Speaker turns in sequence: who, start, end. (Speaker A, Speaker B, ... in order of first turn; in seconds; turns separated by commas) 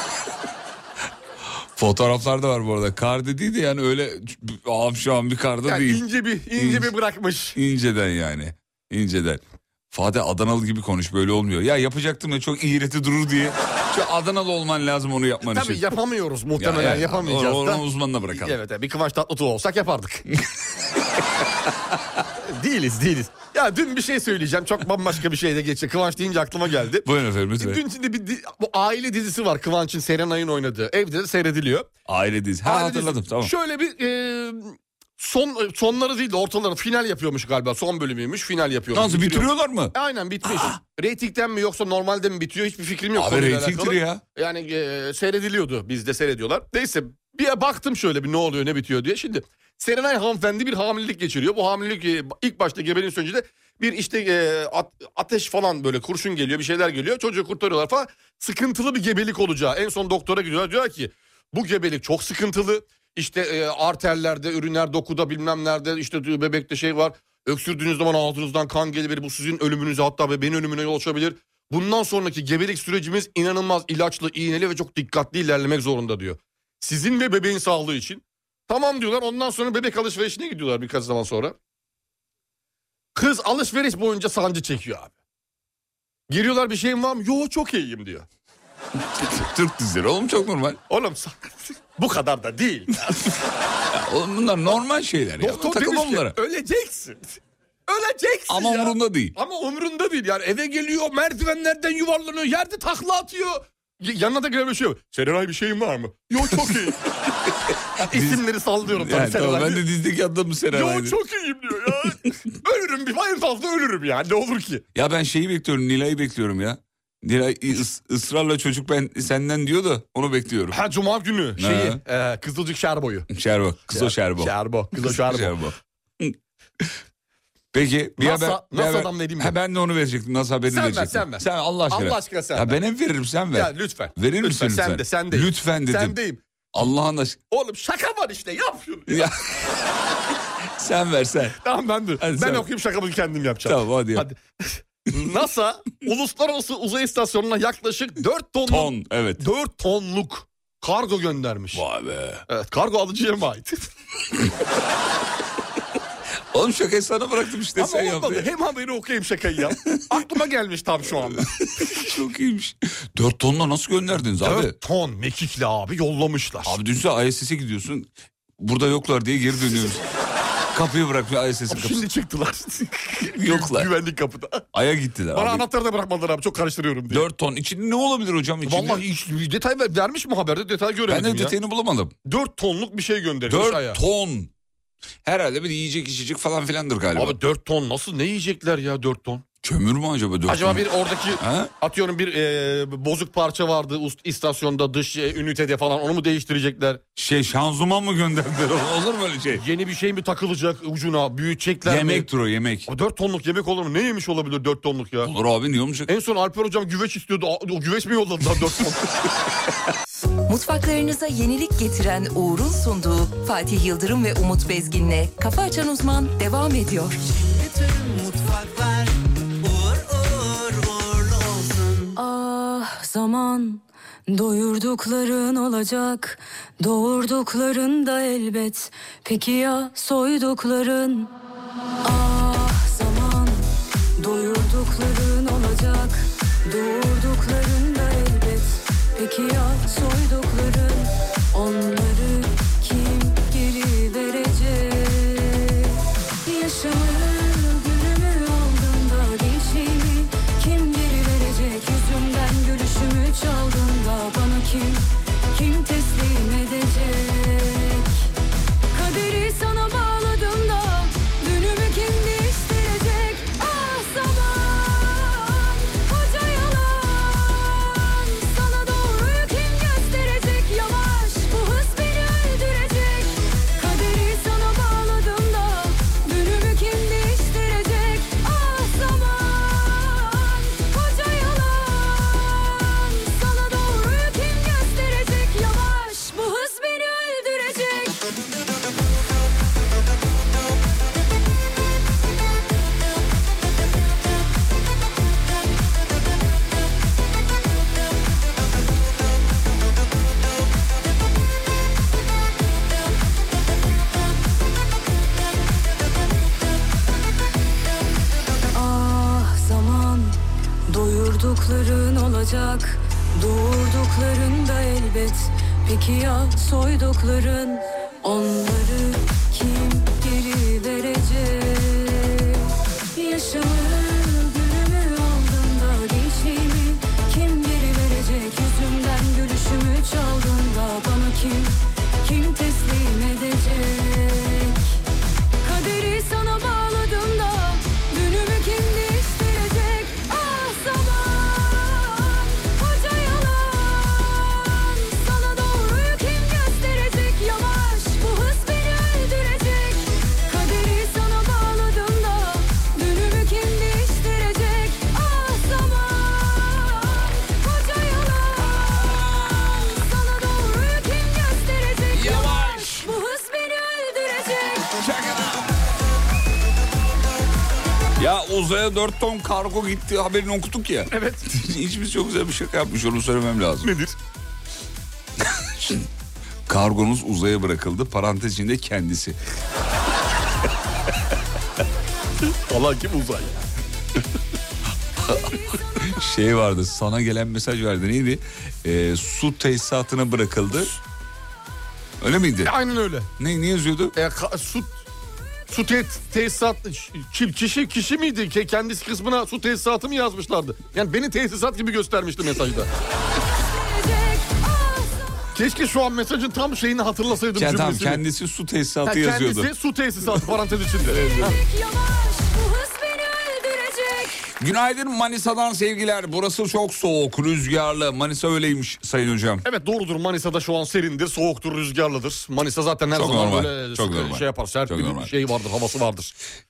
Speaker A: 1.8-6.0, Speaker B: 5.7-7.6, Speaker A: 6.6-6.9, Speaker A: 7.5-15.8, Speaker B: 15.4-20.2, Speaker A: 16.6-18.6, Speaker B: 22.4-27.1, Speaker A: 27.0-27.8, Speaker B: 27.6-31.9, Speaker A: 32.1-33.5, Speaker B: 32.6-81.5, Speaker A: 38.9-40.8, Speaker A: 43.1-44.2, Speaker B: 83.2-85.1, Speaker B: 86.3-88.3, Speaker A: 89.2-90.8, Speaker B: 90.9-93.3, Speaker A: 93.9-96.4, Speaker B: 95.4-107.3, Speaker A: 98.5-99.3, Speaker A: 106.4-106.7, Speaker B: 108.0-109.8, Speaker A: 108.0-111.2, Speaker B: 110.7-114.8, Speaker A: 114.9-120.8, Speaker B: 120.7-123.3, Speaker A: 121.6-122.0, Speaker A: 123.3-126.9, Speaker B: 123.9-125.6, Speaker A: 127.7-136.2, Speaker B: 128.2-129.5, Speaker B: 130.7-132.8, Speaker B: 133.5-136.4, Speaker A: 136.7-137.4, Speaker B: 137.5-139.3, Speaker A: 139.1-139.7, Speaker A: 140.8-141.6, Speaker B: 141.6-151.8, Speaker A: 142.2-142.7, Speaker A: 143.7-144.3, Speaker A: 148.7-149.5, Speaker A: 151.7-152.4, Speaker B: 152.5-153.8, Speaker A: 156.5-158.5, Speaker B: 157.8-162.1, Speaker A: 159.7-160.0, Speaker A: 161.6-164.8, Speaker B: 164.4-166.8, Speaker A: 166.7-170.0, Speaker A: 170.7-172.1, Speaker B: 171.7-174.7, Speaker A: 173.3-173.9, Speaker A: 174.7-175.7, Speaker B: 175.3-177.3, Speaker A: 177.1-179.0, Speaker B: 178.7-181.6, Speaker A: 181.1-182.1, Speaker B: 182.2-184.0, Speaker A: 183.5-184.5, Speaker A: 185.2-187.4, Speaker B: 187.2-189.4, Speaker A: 189.6-191.7, Speaker B: 190.5-197.0, Speaker A: 197.2-199.6, Speaker B: 199.6-202.3, Speaker A: 201.8-202.9, Speaker B: 202.9-205.3, Speaker A: 205.2-206.1, Speaker B: 206.1-209.0, Speaker C: 210.5-217.2, Speaker D: 217.3-219.1, Speaker D: 219.6-222.1, Speaker E: 222.2-231.3, Speaker E: 232.0-258.3, Speaker E: 258.9-288.3, Speaker E: 308.7-335.0, Speaker E: 335.6-365.0, Speaker A: 362.1-363.1, Speaker A: 365.0-365.6, Speaker A: 368.2-373.9, Speaker B: 371.1-371.4, Speaker B: 373.8-374.1, Speaker A: 375.6-376.1, Speaker A: 376.7-379.4, Speaker B: 382.5-383.6, Speaker A: 385.2-390.9, Speaker A: 392.2-392.8, Speaker B: 392.6-393.3, Speaker A: 393.4-394.1, Speaker B: 394.1-395.0, Speaker B: 395.7-402.9, Speaker E: 403.2-405.4, Speaker B: 405.6-408.2, Speaker A: 407.6-409.7, Speaker B: 409.1-411.6, Speaker A: 411.1-411.6, Speaker E: 411.4-414.4, Speaker A: 414.6-419.6, Speaker B: 419.6-426.3, Speaker A: 423.1-425.3